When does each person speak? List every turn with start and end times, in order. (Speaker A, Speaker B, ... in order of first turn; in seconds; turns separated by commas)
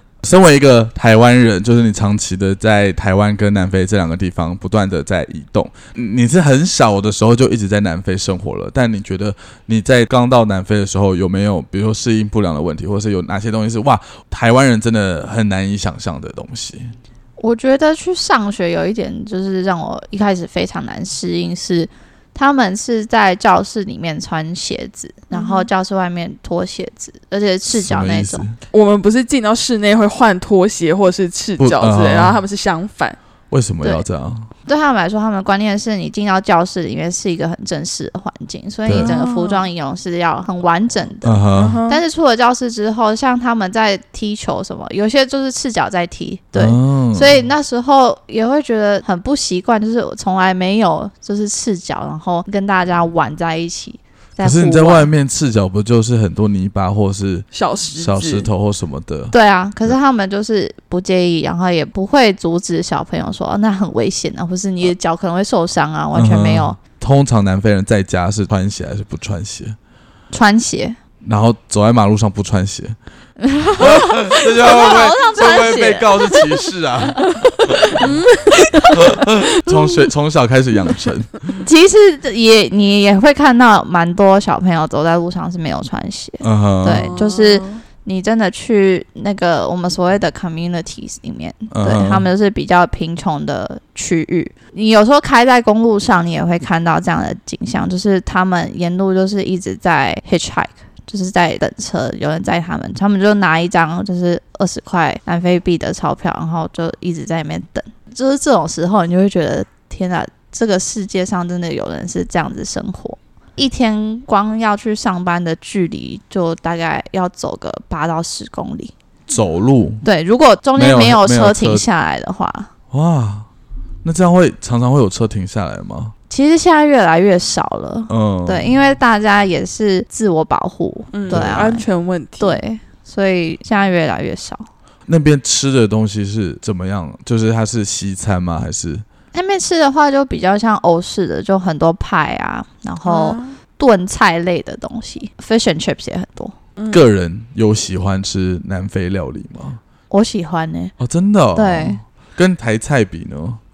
Speaker A: 0.2-16.9, Speaker B: 17.4-28.4, Speaker C: 25.3-25.7, Speaker A: 27.7-28.6, Speaker C: 28.7-33.2, Speaker A: 31.6-32.4, Speaker A: 33.5-34.5, Speaker B: 34.6-55.1, Speaker C: 38.9-39.6, Speaker A: 41.2-41.8, Speaker C: 41.5-42.0, Speaker A: 46.5-47.4, Speaker A: 54.4-59.3, Speaker C: 57.5-58.5, Speaker B: 59.3-66.8, Speaker A: 66.1-69.8, Speaker B: 70.3-71.0, Speaker A: 71.2-73.0, Speaker B: 73.4-76.5, Speaker A: 73.8-77.7, Speaker B: 77.7-80.0, Speaker C: 78.0-78.6, Speaker A: 79.0-81.4, Speaker B: 81.6-118.9, Speaker A: 86.4-87.1, Speaker C: 86.9-87.8, Speaker A: 91.7-92.3, Speaker A: 119.3-120.0, Speaker B: 120.0-122.7, Speaker A: 120.8-121.8, Speaker A: 122.9-123.5, Speaker A: 124.0-126.1, Speaker B: 126.3-131.9, Speaker A: 128.1-128.7, Speaker C: 131.1-132.6, Speaker A: 131.3-131.7, Speaker B: 132.4-134.7, Speaker A: 135.1-139.0, Speaker B: 139.3-146.5, Speaker C: 143.0-143.5, Speaker C: 146.8-147.0, Speaker A: 146.9-149.8, Speaker B: 150.1-150.9, Speaker A: 151.0-153.6, Speaker B: 151.5-152.0